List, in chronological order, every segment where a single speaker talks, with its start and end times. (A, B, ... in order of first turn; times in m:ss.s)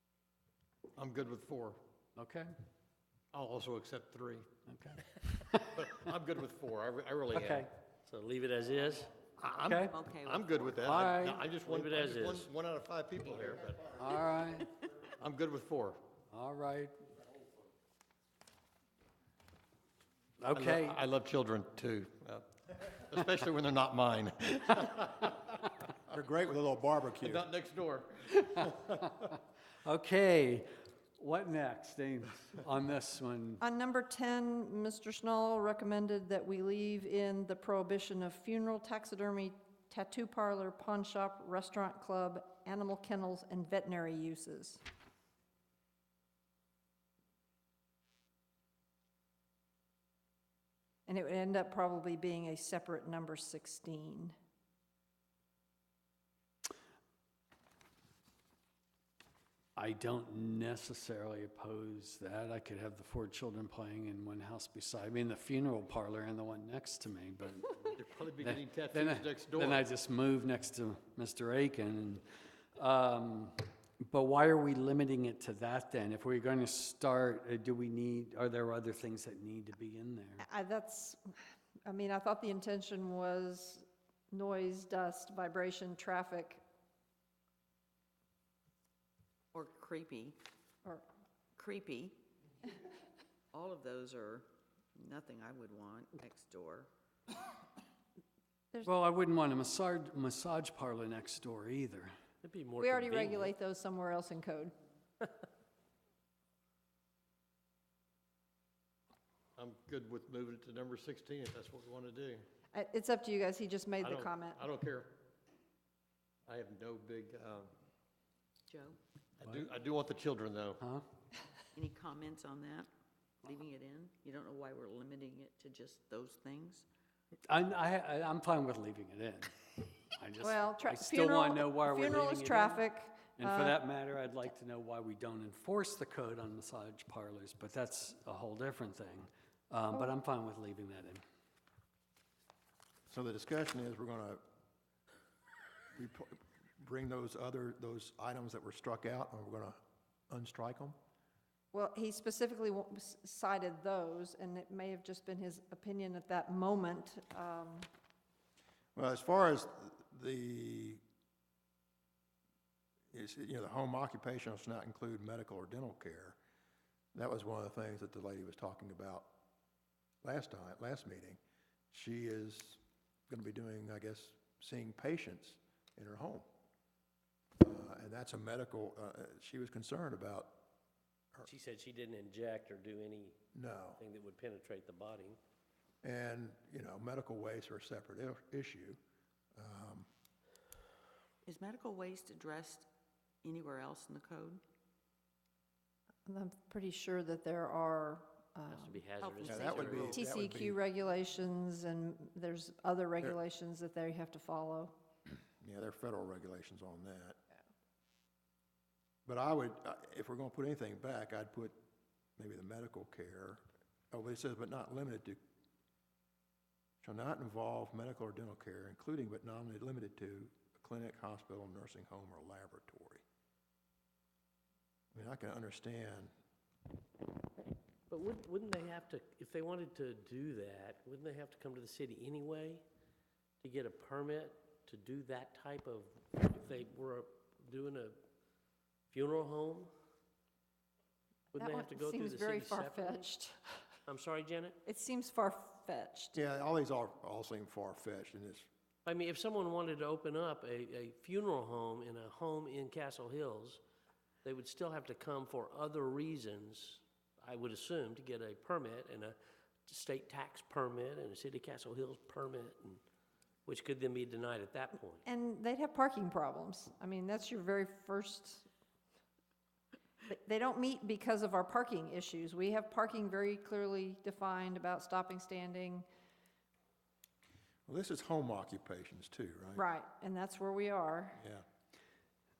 0:01.0-0:01.8 A
0:02.2-0:02.5 B
0:03.3-0:04.5 A
0:04.7-0:05.9 B
0:05.7-0:07.7 A
0:07.3-0:07.7 B
0:08.0-0:09.2 C
0:09.4-0:14.0 A
0:09.6-0:10.0 B
0:09.8-0:10.9 D
0:10.8-0:11.4 B
0:11.6-0:12.5 C
0:13.9-0:14.7 B
0:15.1-0:16.0 A
0:16.3-0:17.0 B
0:20.4-0:21.0 B
0:20.5-0:25.4 A
0:26.1-0:27.4 E
0:27.2-0:29.3 A
0:29.8-0:33.6 B
0:33.6-0:44.8 F
0:51.1-0:54.3 F
0:59.8-1:07.8 B
1:07.8-1:09.8 A
1:08.4-1:12.2 B
1:12.8-1:20.4 B
1:20.4-1:21.3 F
1:21.8-1:26.6 F
1:29.5-1:30.4 D
1:31.6-1:32.2 D
1:33.5-1:36.9 D
1:38.8-1:42.1 B
1:42.4-1:43.5 C
1:42.8-1:44.8 F
1:49.6-1:52.4 A
1:52.7-1:54.6 F
1:54.0-1:55.2 A
1:56.5-1:57.7 A
1:58.7-1:59.0 D
1:59.4-2:00.8 A
2:01.7-2:02.9 D
2:03.4-2:06.9 D
2:07.5-2:09.6 B
2:10.1-2:12.8 B
2:10.4-2:13.8 F
2:13.4-2:21.2 B
2:23.1-2:24.4 E
2:25.9-2:29.8 E
2:30.3-2:31.0 E
2:31.7-2:37.9 F
2:38.9-2:41.0 E
2:43.1-2:46.4 E
2:47.1-2:49.4 E
2:50.2-2:51.4 E
2:51.9-2:56.4 E
2:57.6-3:00.6 E
3:01.4-3:03.4 C
3:03.5-3:04.0 E
3:04.0-3:05.4 C
3:06.0-3:09.0 E
3:09.6-3:10.1 E
3:11.4-3:12.9 D
3:13.4-3:14.6 D
3:16.2-3:19.0 F
3:18.7-3:20.2 C
3:19.2-3:20.2 D
3:19.4-3:20.8 E
3:20.0-3:24.9 F
3:25.6-3:27.4 E
3:29.2-3:31.8 E
3:32.4-3:35.4 E
3:37.0-3:43.2 E
3:45.1-3:46.3 E
3:48.1-3:52.8 C
3:53.6-3:58.2 C
3:59.1-3:59.9 C
4:01.5-4:03.3 C
4:01.6-4:03.8 F
4:04.1-4:04.8 C
4:04.8-4:06.4 F
4:06.3-4:08.7 E
4:09.0-4:13.8 C
4:14.4-4:23.0 C
4:23.7-4:25.2 C
4:25.2-4:28.7 F
4:30.2-4:36.1 F
4:37.9-4:39.8 E
4:39.8-4:41.4 F
4:41.4-4:41.6 E